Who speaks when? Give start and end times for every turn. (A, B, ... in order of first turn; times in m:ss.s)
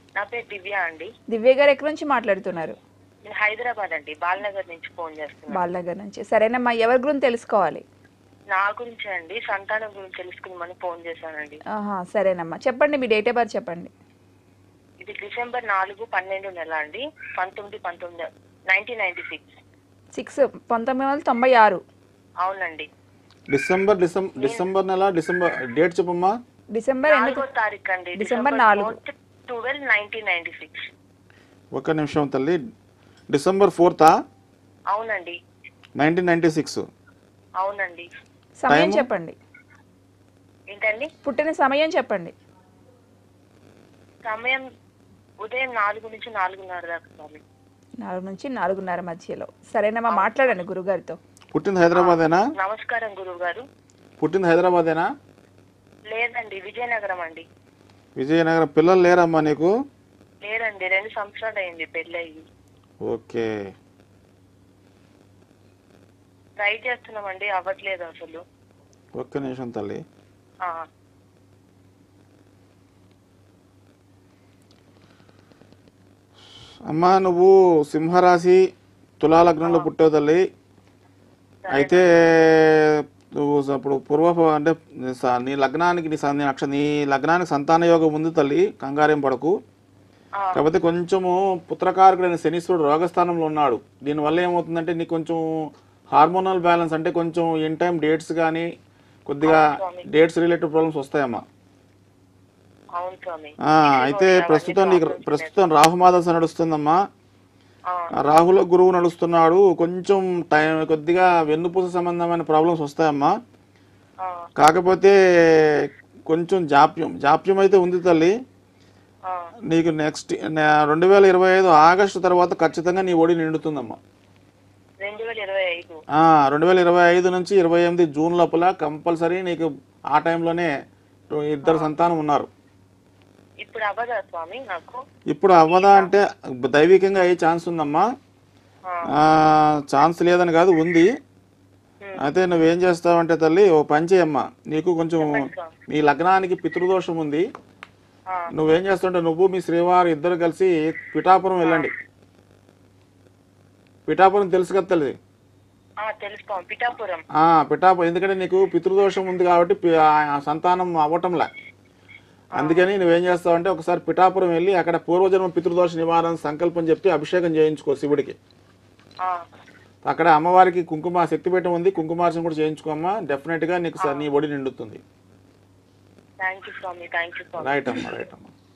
0:00.2-0:01.1 A
0:01.3-0:02.8 B
0:03.3-0:05.6 A
0:05.5-0:07.8 B
0:08.5-0:11.6 A
0:11.8-0:13.9 B
0:15.0-0:19.5 A
0:20.1-0:21.8 B
0:22.4-0:22.9 A
0:23.5-0:26.4 C
0:24.4-0:24.7 A
0:26.8-0:27.4 B
0:27.1-0:30.7 A
0:28.2-0:29.0 B
0:31.7-0:32.6 C
0:33.3-0:34.1 C
0:34.9-0:35.4 A
0:36.0-0:36.8 C
0:37.6-0:38.1 A
0:38.6-0:39.4 B
0:38.7-0:39.0 C
0:40.7-0:41.1 A
0:41.2-0:42.3 B
0:44.2-0:44.6 A
0:45.4-0:47.4 A
0:48.0-0:51.2 B
0:50.1-0:50.6 A
0:51.5-0:52.4 C
0:51.9-0:53.6 A
0:54.2-0:55.1 C
0:56.1-0:57.4 A
0:58.2-0:59.7 C
1:00.4-1:02.4 A
1:03.0-1:03.5 C
1:06.6-1:08.4 A
1:09.2-1:10.0 C
1:16.9-1:18.6 C
1:19.2-1:20.4 C
1:19.6-1:19.9 A
1:21.6-1:22.0 A
1:21.7-1:29.5 C
1:30.5-1:35.4 C
1:36.1-1:38.7 C
1:39.3-1:41.4 C
1:39.4-1:40.0 A
1:43.0-1:45.5 A
1:43.7-1:47.0 C
1:48.2-1:53.3 C
1:54.2-1:54.5 A
1:54.6-1:58.3 C
1:59.7-2:04.0 C
2:05.0-2:06.0 A
2:06.2-2:10.7 C
2:11.3-2:12.5 C
2:11.6-2:11.9 A
2:13.6-2:15.0 A
2:15.3-2:18.0 C
2:15.6-2:16.1 A
2:18.9-2:19.1 A
2:19.2-2:21.1 C
2:22.2-2:27.4 C
2:25.2-2:25.7 A
2:28.6-2:31.9 C
2:31.6-2:31.9 A
2:34.1-2:35.2 C
2:36.0-2:37.2 A
2:37.4-2:41.5 C
2:42.6-2:48.4 C
2:42.6-2:42.9 A
2:50.1-2:55.0 C
2:54.0-2:54.3 A
2:56.4-2:58.2 A
2:57.6-2:58.5 C